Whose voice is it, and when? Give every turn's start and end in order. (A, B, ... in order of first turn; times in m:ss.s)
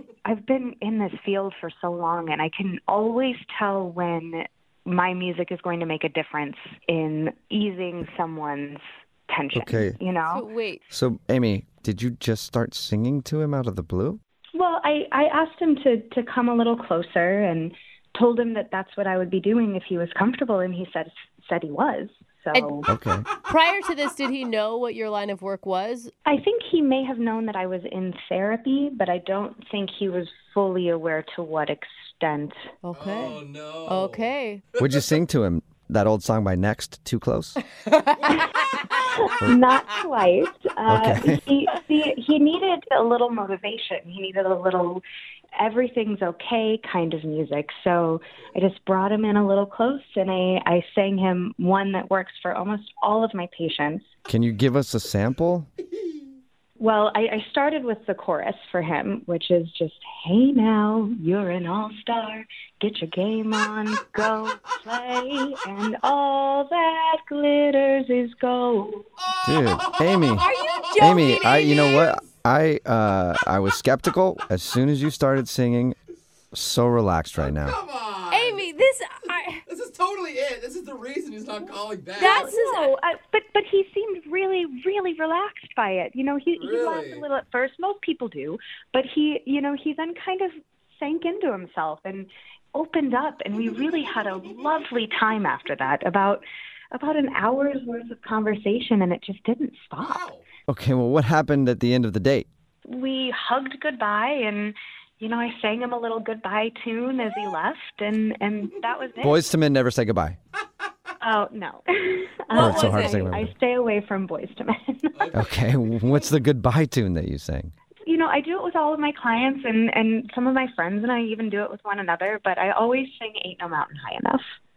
0:00.2-0:10.4 A
0:09.5-0:10.0 B
0:10.3-0:10.8 C
0:10.9-0:14.2 B
0:14.5-0:22.9 A
0:22.5-0:22.8 C
0:22.9-0:23.2 B
0:23.4-0:26.1 C
0:26.2-0:32.6 A
0:32.8-0:34.6 C
0:32.9-0:34.3 D
0:34.8-0:37.6 B
0:37.9-0:38.6 C
0:39.0-0:45.0 A
0:40.9-0:41.4 B
0:45.6-0:54.0 A
0:54.3-0:55.7 B
0:56.8-1:09.1 A
1:09.4-1:16.0 B
1:10.3-1:12.2 C
1:16.5-1:17.8 B
1:17.6-1:18.6 D
1:18.3-1:19.6 C
1:19.7-1:22.5 D
1:22.2-1:22.9 C
1:22.2-1:40.3 A
1:26.6-1:27.2 D
1:40.1-1:40.4 D
1:40.7-1:42.5 B
1:42.9-1:49.4 A
1:49.2-1:50.4 B
1:51.2-1:55.3 A
1:52.5-1:53.3 C
1:52.6-1:53.5 B
1:55.3-1:57.7 B
1:58.0-2:04.4 A